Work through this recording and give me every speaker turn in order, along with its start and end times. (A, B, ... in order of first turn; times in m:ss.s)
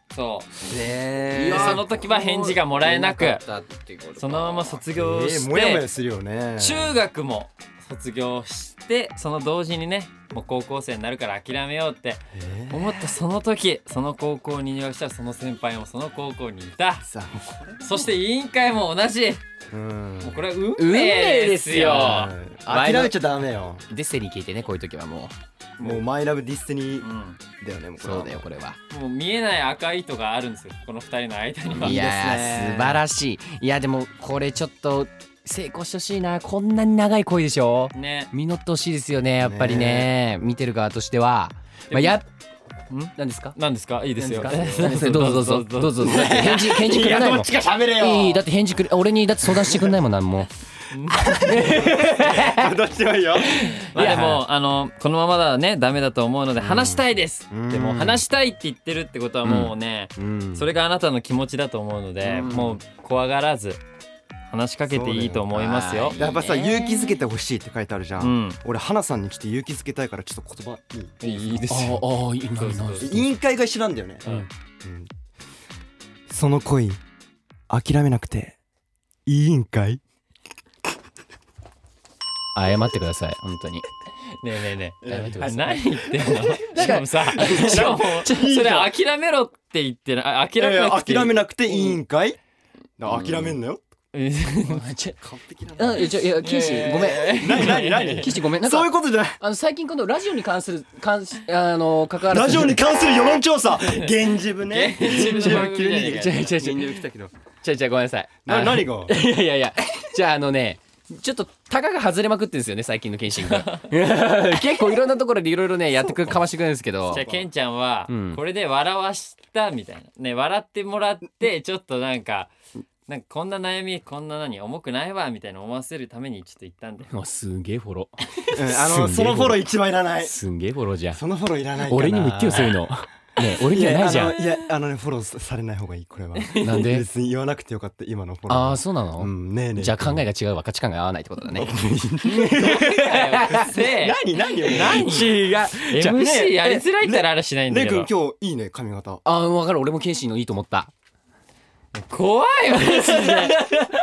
0:00.1-0:00.5 A
0:00.6-0:01.8 B
0:01.3-0:04.8 C
0:01.4-0:03.4 A
0:04.2-0:05.9 A
0:04.9-0:07.0 B
0:06.6-0:17.0 A
0:12.3-0:13.0 B
0:17.0-0:18.0 B
0:17.8-0:19.4 A
0:19.7-0:20.4 B
0:20.2-0:22.3 A
0:20.8-0:23.2 C
0:21.9-0:23.8 B
0:23.9-0:25.4 C
0:25.8-0:26.0 A
0:25.8-0:28.4 B
0:27.0-0:27.4 A
0:28.0-0:28.8 C
0:28.9-0:32.0 A
0:31.7-0:33.0 B
0:31.8-0:42.3 C
0:38.0-0:38.3 A
0:39.4-0:40.1 B
0:41.9-0:42.2 A
0:42.9-0:46.4 A
0:43.2-0:43.6 C
0:44.2-0:50.5 C
0:46.0-0:48.4 B
0:49.6-0:49.9 B
0:50.9-0:52.0 A
0:51.2-0:52.7 C
0:51.5-0:54.4 B
0:53.4-1:03.8 A
0:54.0-0:54.4 C
0:56.6-0:58.2 B
0:59.4-0:59.7 C
1:00.2-1:00.7 B
1:02.2-1:02.8 C
1:02.3-1:02.6 B
1:04.5-1:06.2 A
1:04.9-1:05.5 B
1:05.5-1:07.2 C
1:06.2-1:11.2 B
1:08.2-1:08.6 A
1:11.2-1:13.1 A
1:11.7-1:13.3 C
1:13.0-1:15.1 B
1:16.3-1:17.0 B
1:17.7-1:18.6 B
1:19.3-1:20.0 B
1:22.6-1:23.9 C
1:24.4-1:31.4 A
1:25.0-1:28.9 B
1:25.1-1:25.8 C
1:26.7-1:28.0 C
1:30.6-1:32.4 B
1:33.0-1:33.8 B
1:33.1-1:33.6 C
1:34.1-1:34.9 A
1:34.7-1:35.2 C
1:35.2-1:36.2 B
1:35.8-1:43.4 C
1:36.4-1:38.3 A
1:37.2-1:39.4 B
1:42.3-1:47.3 B
1:43.8-1:44.1 A
1:44.7-1:46.5 A
1:45.1-1:47.0 C
1:47.6-1:57.2 C
1:48.4-1:49.2 B
1:53.4-1:53.9 A
1:56.1-1:56.3 B
1:57.1-2:02.5 A
1:57.1-1:57.5 B
1:58.1-1:58.4 C
2:03.1-2:07.1 A
2:07.1-2:09.6 C
2:08.5-2:10.4 B
2:10.2-2:11.2 C
2:11.1-2:12.9 B
2:11.8-2:14.4 C
2:13.5-2:20.2 B
2:16.4-2:16.8 A
2:16.6-2:17.1 C
2:18.5-2:23.7 C
2:21.5-2:25.3 B
2:22.6-2:28.1 A
2:24.6-2:26.2 C
2:26.0-2:29.2 B
2:29.2-2:30.9 C
2:31.9-2:33.7 A
2:33.1-2:33.9 C